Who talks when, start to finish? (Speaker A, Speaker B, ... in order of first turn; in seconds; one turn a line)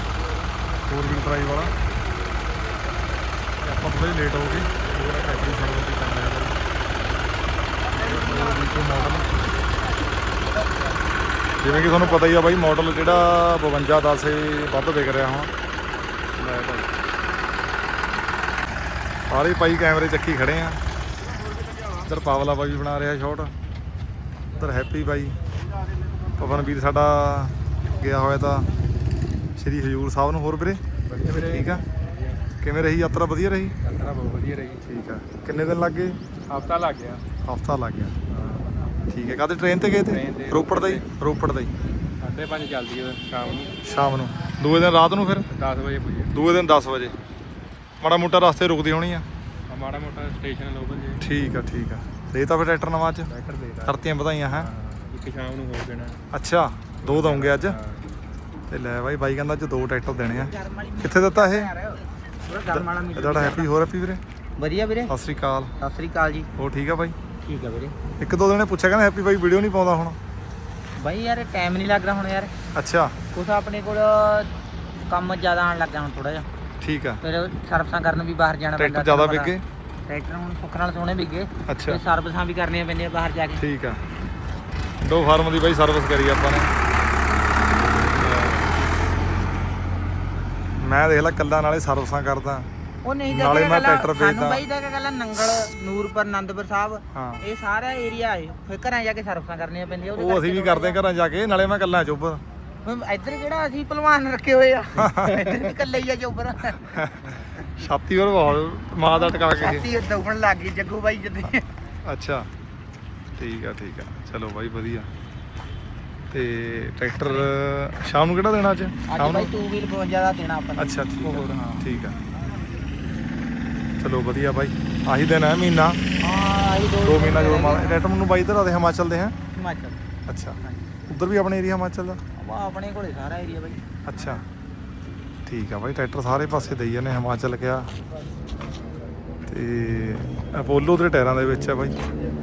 Speaker A: 0.9-1.7
Speaker A: 3.6-6.6
Speaker A: 7.9-9.3
Speaker A: 11.6-15.5
Speaker A: 16.4-16.9
Speaker A: 19.3-20.8
Speaker A: 22.0-23.5
Speaker A: 24.6-25.4
Speaker A: 26.4-28.7
Speaker A: 29.6-31.9
Speaker B: 31.1-31.8
Speaker A: 32.6-33.8
Speaker B: 33.8-34.8
Speaker A: 34.9-36.2
Speaker B: 36.5-37.2
Speaker A: 37.4-38.1
Speaker A: 39.1-41.7
Speaker B: 40.1-41.0
Speaker B: 42.2-43.8
Speaker A: 43.8-45.5
Speaker B: 45.5-46.3
Speaker A: 46.3-47.1
Speaker A: 48.0-49.2
Speaker B: 49.7-51.2
Speaker A: 51.2-53.3
Speaker B: 53.3-54.0
Speaker A: 53.8-54.7
Speaker B: 54.6-56.2
Speaker A: 56.3-57.8
Speaker B: 57.0-58.0
Speaker A: 58.7-61.7
Speaker C: 60.3-63.7
Speaker A: 62.7-64.2
Speaker C: 64.6-65.1
Speaker A: 65.1-65.7
Speaker C: 65.8-66.5
Speaker A: 66.6-67.2
Speaker C: 67.4-68.0
Speaker A: 68.2-70.2
Speaker C: 71.0-72.5
Speaker A: 72.7-73.2
Speaker C: 73.3-74.5
Speaker C: 75.1-76.5
Speaker A: 76.8-77.2
Speaker C: 77.2-79.5
Speaker A: 78.8-79.6
Speaker C: 80.0-83.6
Speaker A: 81.7-82.0
Speaker A: 83.6-84.0
Speaker A: 85.0-86.7
Speaker A: 88.1-88.7
Speaker A: 90.8-92.7
Speaker C: 93.0-101.0
Speaker A: 93.3-94.6
Speaker A: 97.1-97.4
Speaker A: 100.1-102.4
Speaker C: 102.8-107.0
Speaker A: 105.0-105.4
Speaker A: 106.9-109.9
Speaker C: 109.1-111.7
Speaker A: 112.0-112.5
Speaker A: 113.4-115.1
Speaker A: 116.3-119.5
Speaker C: 117.2-117.5
Speaker C: 119.1-121.9
Speaker A: 120.8-122.2
Speaker A: 124.0-126.0
Speaker C: 126.2-128.0
Speaker A: 127.0-129.3
Speaker C: 129.5-130.0
Speaker A: 130.3-132.2
Speaker C: 132.3-133.8
Speaker A: 134.1-134.4
Speaker A: 135.4-137.9
Speaker A: 139.5-141.9